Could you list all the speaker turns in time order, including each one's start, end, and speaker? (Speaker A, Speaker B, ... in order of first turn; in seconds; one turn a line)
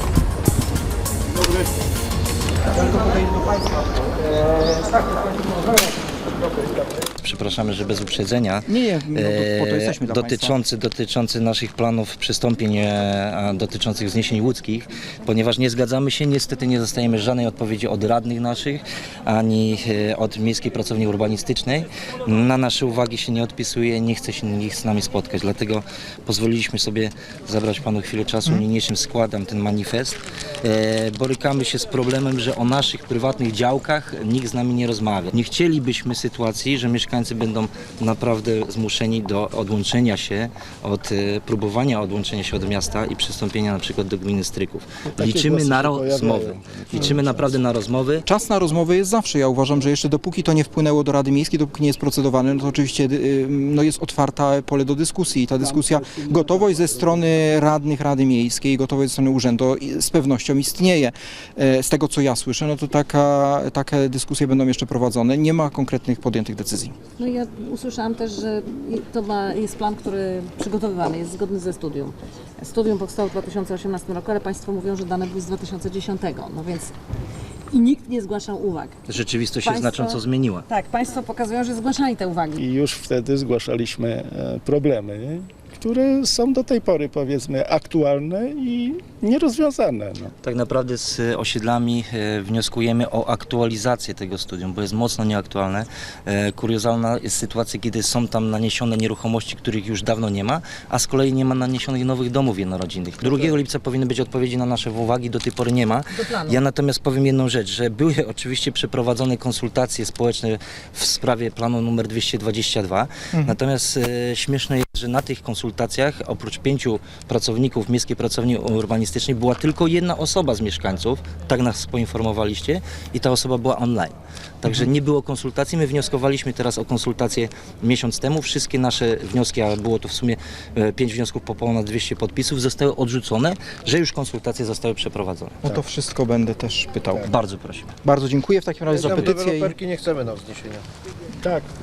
Speaker A: 7.2-48.2
Speaker B: 8.7-10.5
Speaker C: 45.1-47.4
Speaker B: 48.3-66.9
Speaker D: 49.8-50.2
Speaker D: 59.4-60.5
Speaker D: 61.8-66.6
Speaker E: 67.2-76.9
Speaker E: 77.7-78.9
Speaker A: 79.1-80.6
Speaker E: 79.6-82.6
Speaker C: 82.5-90.3
Speaker A: 90.4-135.6
Speaker E: 106.2-106.5
Speaker B: 135.6-137.2
Speaker A: 137.2-137.9
Speaker B: 138.0-139.6
Speaker D: 138.3-140.8